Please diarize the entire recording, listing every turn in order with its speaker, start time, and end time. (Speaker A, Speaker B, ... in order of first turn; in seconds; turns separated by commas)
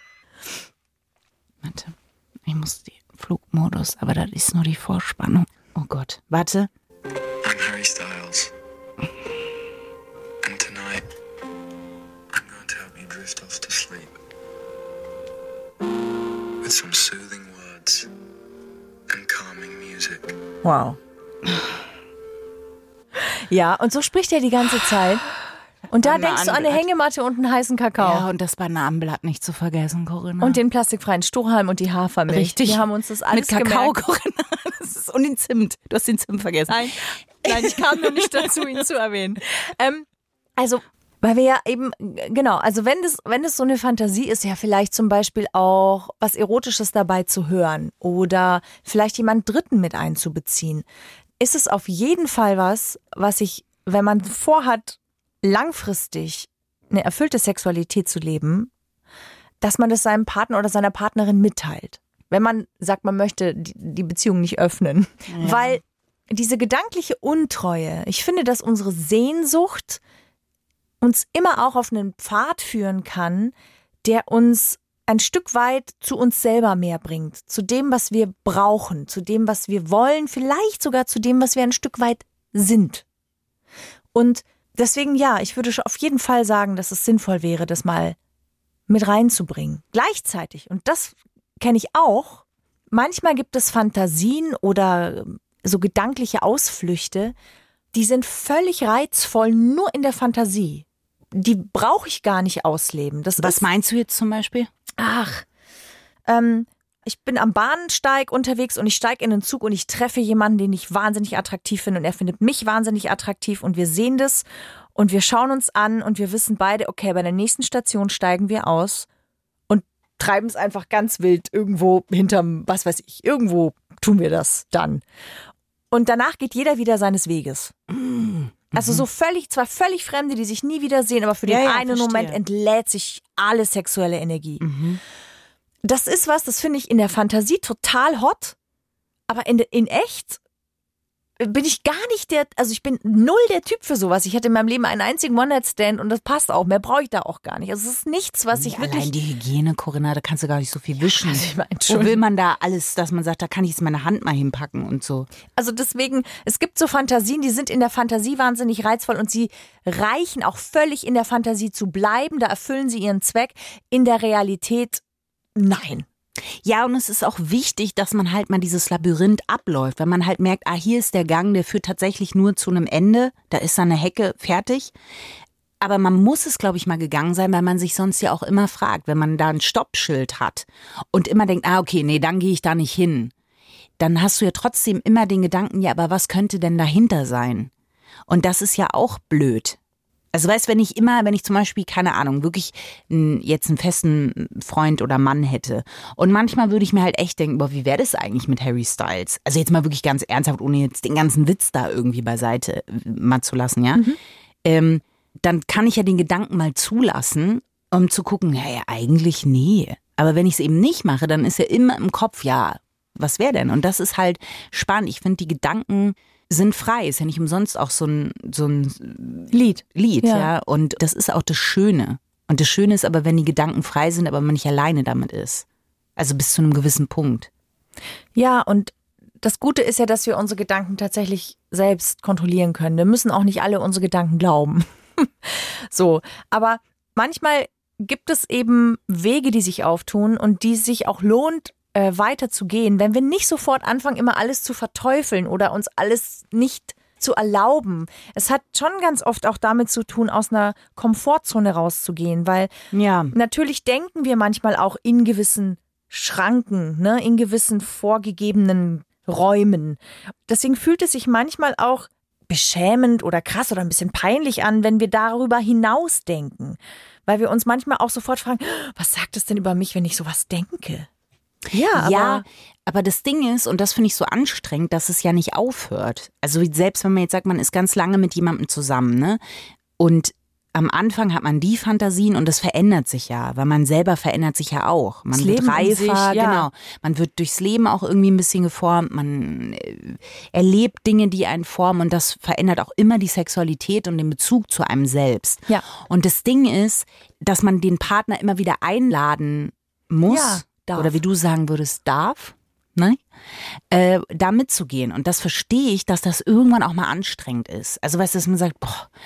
Speaker A: 1.6-1.9, Speaker A: 2.5-6.7, Speaker A: 7.4-8.5, Speaker B: 7.7-8.4, Speaker B: 10.4-11.0, Speaker B: 12.3-14.1, Speaker B: 16.6-18.1, Speaker B: 19.1-20.3, Speaker C: 20.6-21.0, Speaker C: 23.5-25.2, Speaker C: 25.9-28.2, Speaker A: 26.0-26.8, Speaker A: 28.0-30.6, Speaker C: 30.4-34.0, Speaker A: 32.3-38.6, Speaker C: 36.7-50.9, Speaker C: 51.4-58.7, Speaker C: 59.6-70.0, Speaker A: 65.3-65.8, Speaker C: 71.0-83.0, Speaker C: 84.1-88.2, Speaker C: 88.9-97.3, Speaker C: 97.9-103.6, Speaker A: 103.4-104.7, Speaker C: 105.0-105.5, Speaker C: 106.2-119.1, Speaker C: 119.7-125.0, Speaker C: 125.9-127.7, Speaker A: 127.9-129.0, Speaker C: 128.7-134.6, Speaker A: 131.4-132.4, Speaker A: 134.6-135.0, Speaker C: 135.8-138.6, Speaker C: 139.3-140.4, Speaker C: 141.4-149.1, Speaker A: 148.5-155.3, Speaker C: 151.1-152.2, Speaker C: 155.6-165.0, Speaker C: 165.6-166.1, Speaker A: 166.6-174.9, Speaker A: 175.8-183.3, Speaker A: 184.0-187.7, Speaker A: 188.3-189.8, Speaker A: 190.3-204.1, Speaker A: 204.6-225.6, Speaker C: 219.5-220.5, Speaker A: 226.2-227.5, Speaker C: 228.3-252.7, Speaker A: 252.9-253.3, Speaker C: 253.3-271.1, Speaker C: 271.7-272.4, Speaker A: 271.9-279.4, Speaker A: 280.0-309.1, Speaker C: 285.3-286.7, Speaker C: 300.2-301.2